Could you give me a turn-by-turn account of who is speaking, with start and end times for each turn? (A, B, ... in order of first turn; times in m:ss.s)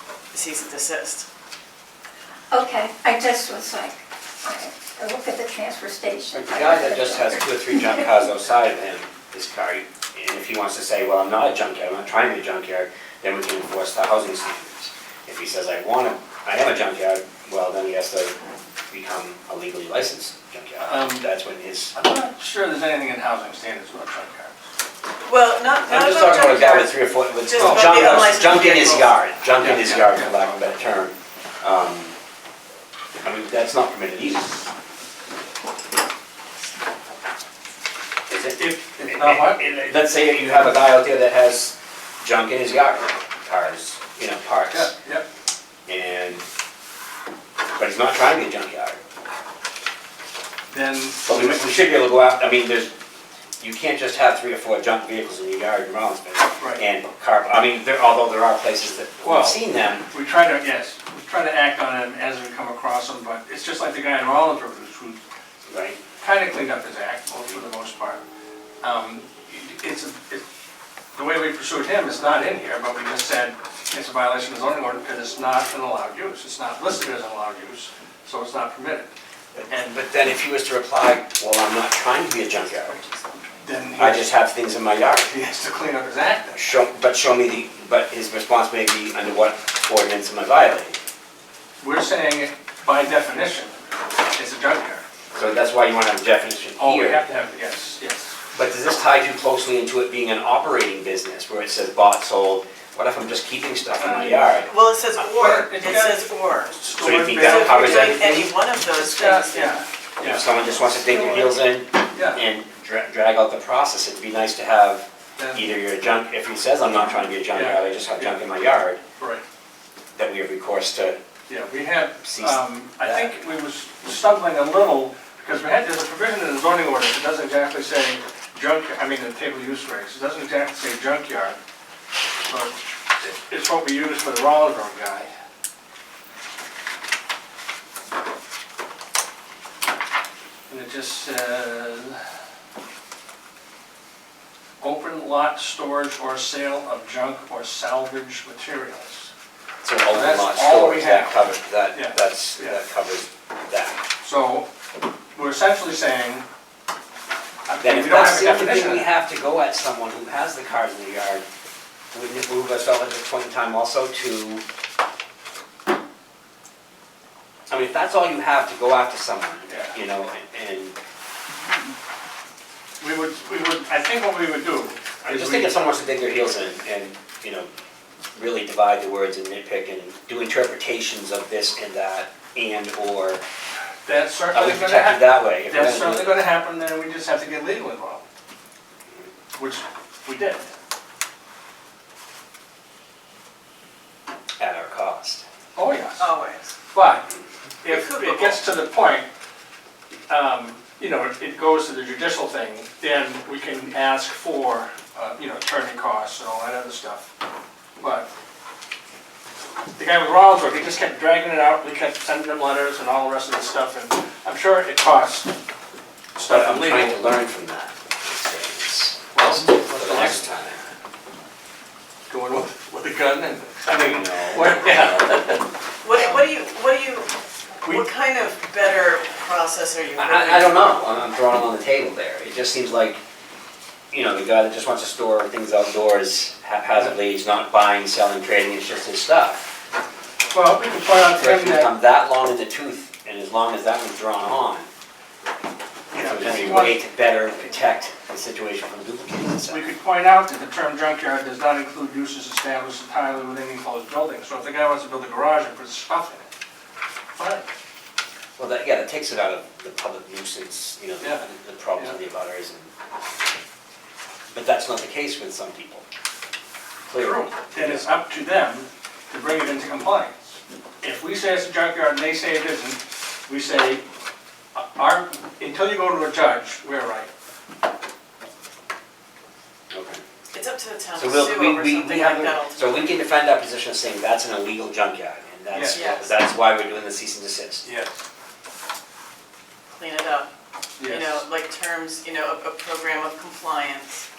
0:00.3-0:01.3 A
0:02.5-0:08.0 B
0:06.3-0:18.3 C
0:18.9-0:21.9 C
0:20.8-0:21.3 D
0:21.9-0:24.5 D
0:25.2-0:29.1 A
0:25.9-0:32.1 C
0:27.6-0:28.4 D
0:29.6-0:30.4 D
0:33.2-0:34.7 C
0:38.3-0:44.9 C
0:38.6-0:39.6 D
0:44.7-0:45.3 D
0:45.9-0:46.4 C
0:47.8-0:49.0 C
0:50.7-0:51.6 D
0:51.2-0:52.9 C
0:53.6-1:00.1 C
0:59.2-0:59.6 D
1:00.1-1:05.2 D
1:05.7-1:06.0 C
1:06.2-1:08.2 D
1:08.8-1:10.4 D
1:11.1-1:19.1 D
1:19.5-1:23.0 C
1:19.7-1:19.9 D
1:23.6-1:24.3 D
1:24.0-1:25.3 C
1:25.2-1:26.6 D
1:26.5-1:31.0 C
1:31.8-1:33.8 D
1:34.3-1:35.0 D
1:35.3-1:37.2 C
1:36.8-1:38.4 D
1:38.5-1:44.7 C
1:44.0-1:44.4 D
1:44.6-1:46.8 A
1:45.2-1:48.2 D
1:47.0-1:48.5 C
1:47.4-1:49.8 A
1:48.9-1:51.5 D
1:50.2-1:59.0 C
1:52.1-1:52.4 D
1:55.4-1:55.7 D
1:57.5-1:58.4 D
1:59.2-1:59.4 D
2:00.2-2:01.2 C
2:01.5-2:11.6 D
2:02.2-2:03.3 C
2:12.4-2:15.3 D
2:20.7-2:22.2 D
2:24.8-2:29.3 D
2:29.8-2:34.0 C
2:30.1-2:32.8 D
2:34.2-2:34.7 D
2:35.3-2:36.4 D
2:37.6-2:39.1 D
2:37.8-2:41.4 C
2:42.1-2:44.6 C
2:47.7-2:51.0 C
2:49.7-2:50.0 D
2:53.0-2:55.7 D
2:55.2-2:57.7 C
2:58.3-3:03.4 C
3:04.0-3:08.2 D
3:04.5-3:06.5 C
3:09.6-3:10.7 D
3:14.6-3:15.4 C
3:15.7-3:16.2 D
3:16.2-3:16.8 A
3:16.9-3:19.3 D
3:17.8-3:18.6 A
3:20.3-3:27.3 D
3:28.0-3:28.3 D
3:30.0-3:35.5 D
3:36.3-3:37.2 D
3:36.4-3:40.8 C
3:39.3-3:40.4 D
3:42.3-3:45.6 D
3:44.0-3:45.5 C
3:46.0-3:47.3 A
3:46.1-3:46.5 C
3:47.8-3:51.1 A
3:50.2-3:53.2 C
3:54.1-3:59.7 C
4:00.5-4:01.9 D
4:01.3-4:04.9 C
4:06.1-4:09.8 C
4:06.1-4:07.0 D
4:09.7-4:16.5 D
4:17.3-4:17.7 D
4:18.6-4:22.9 C
4:24.5-4:26.0 C
4:27.1-4:28.1 C
4:27.1-4:34.0 D
4:34.8-4:37.3 D
4:39.9-4:40.2 C
4:40.5-4:43.1 A
4:41.1-4:47.8 C
4:45.7-4:46.2 D
4:45.9-4:46.3 A
4:47.8-4:48.2 D
4:49.9-4:50.5 A
4:51.0-4:51.4 D
4:51.0-4:54.2 A